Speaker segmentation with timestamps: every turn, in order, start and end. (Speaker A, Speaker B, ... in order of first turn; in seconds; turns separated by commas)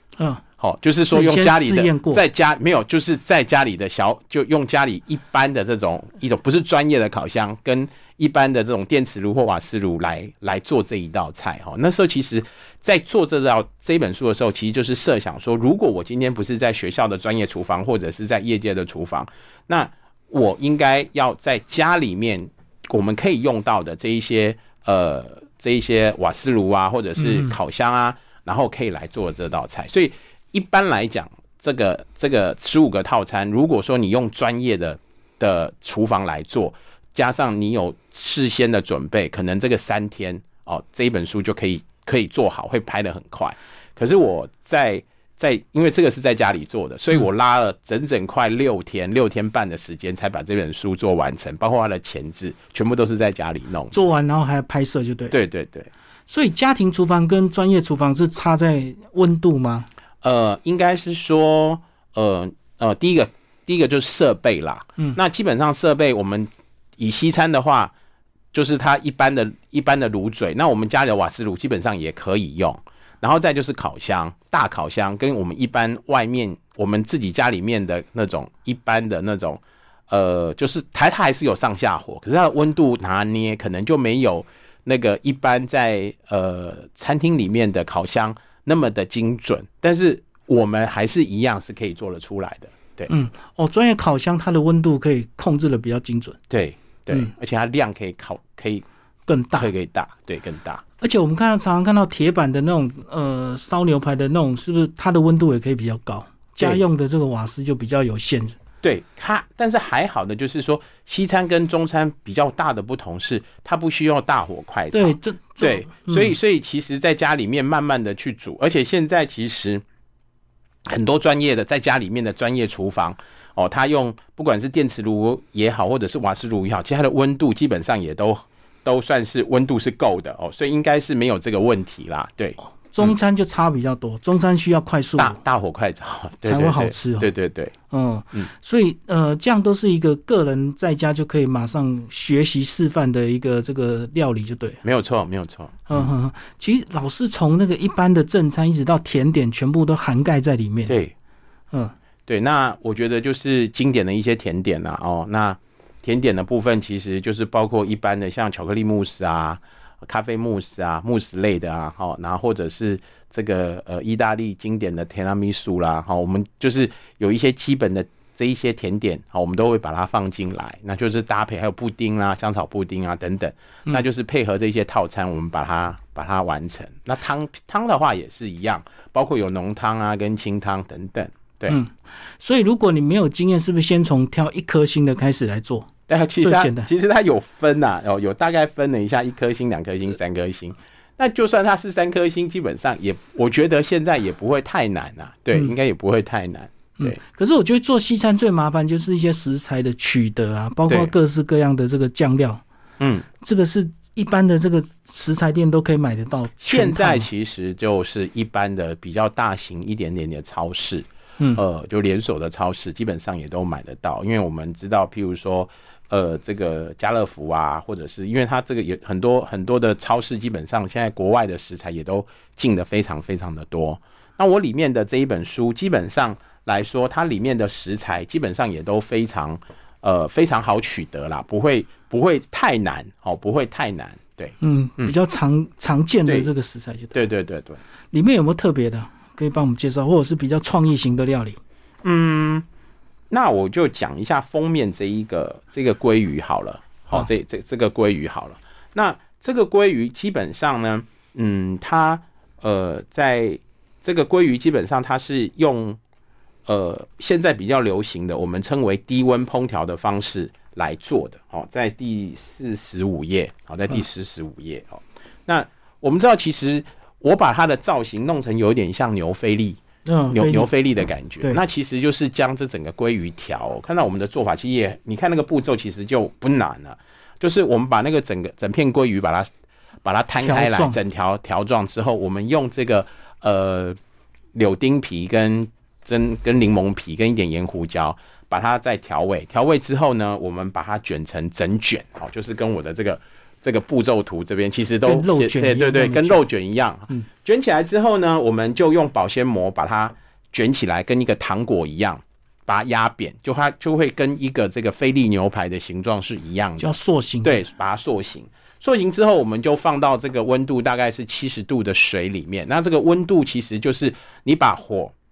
Speaker A: 0.2-0.4, Speaker B: 0.6-54.0, Speaker A: 1.1-2.2, Speaker A: 27.2-27.6, Speaker A: 53.9-55.4, Speaker B: 55.3-55.9, Speaker A: 56.3-59.9, Speaker B: 60.2-67.9, Speaker B: 68.5-93.1, Speaker A: 93.1-96.4, Speaker B: 96.5-98.8, Speaker A: 99.3-99.7, Speaker B: 99.6-100.8, Speaker A: 101.0-108.5, Speaker B: 108.8-119.8, Speaker A: 114.9-116.4, Speaker B: 120.9-133.1, Speaker A: 132.9-135.4, Speaker B: 135.2-137.8, Speaker A: 136.4-137.3, Speaker A: 137.9-144.8, Speaker B: 144.8-146.1, Speaker A: 145.9-150.9, Speaker B: 150.9-151.1, Speaker B: 152.3-181.8, Speaker A: 181.7-185.9, Speaker B: 186.1-197.2, Speaker A: 186.4-186.9, Speaker A: 197.0-202.6, Speaker B: 203.0-203.3, Speaker A: 203.4-207.3, Speaker B: 206.6-235.1, Speaker A: 234.6-237.1, Speaker B: 237.1-237.8, Speaker A: 238.1-241.6, Speaker B: 242.0-242.7, Speaker B: 243.3-256.0, Speaker B: 256.7-279.5, Speaker A: 270.1-270.7, Speaker B: 280.0-284.0, Speaker A: 280.4-281.0, Speaker B: 284.5-315.1, Speaker A: 295.1-296.4, Speaker A: 306.8-307.6